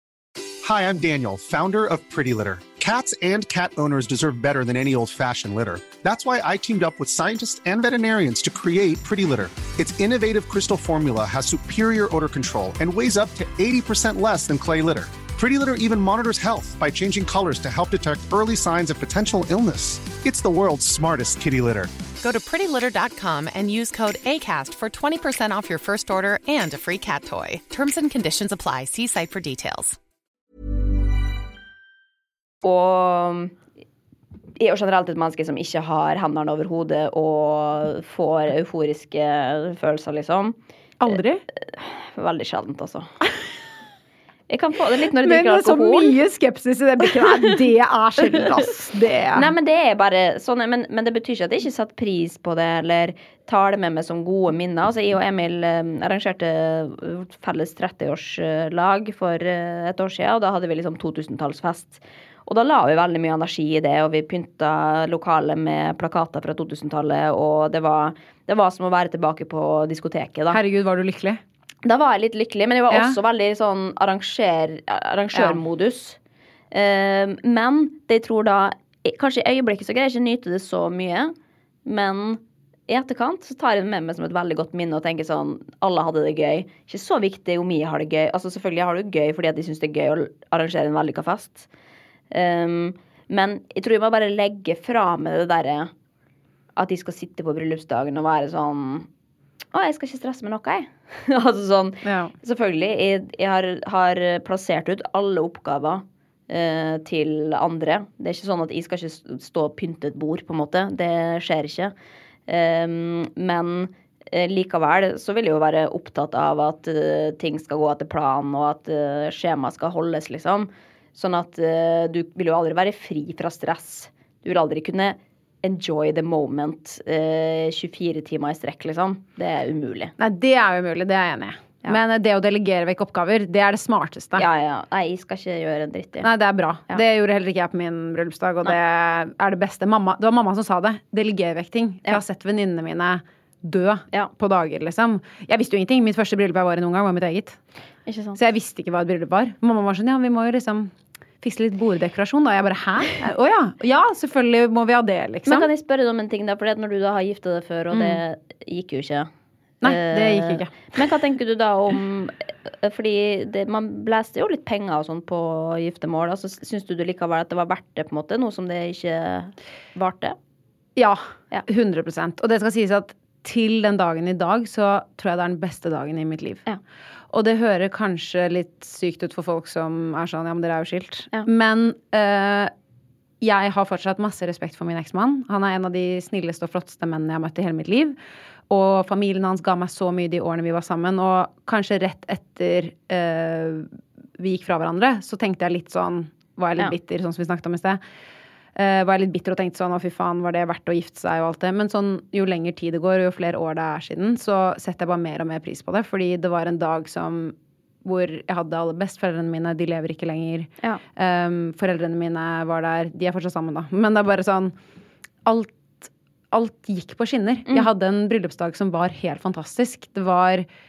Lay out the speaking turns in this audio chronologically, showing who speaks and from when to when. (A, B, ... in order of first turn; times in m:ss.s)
0:00.6-0:21.9 A
0:22.2-0:30.0 B
0:32.6-0:33.5 C
0:34.6-0:40.6 C
0:41.0-0:41.4 D
0:41.6-0:43.1 C
0:44.5-0:46.2 C
0:45.2-0:49.5 D
0:49.4-1:10.6 C
1:10.5-1:11.4 D
1:11.8-1:16.2 C
1:12.9-1:13.2 D
1:15.3-1:15.6 D
1:16.7-1:21.3 C
1:21.9-1:31.7 C
1:32.3-1:35.9 C
1:36.8-1:39.1 C
1:39.7-1:51.9 C
1:42.0-1:42.3 D
1:52.5-2:10.1 C
2:10.2-2:14.5 D
2:14.4-2:16.3 C
2:16.2-2:27.6 D
2:28.1-2:28.4 C
2:28.4-2:35.7 D
2:35.5-2:39.3 C
2:37.9-2:38.2 D
2:39.8-2:41.0 D
2:39.8-2:50.4 C
2:51.0-2:56.6 D
2:57.3-3:02.7 D
3:03.4-3:08.2 D
3:08.7-3:18.0 D
3:18.8-3:34.8 D
3:35.4-3:40.7 D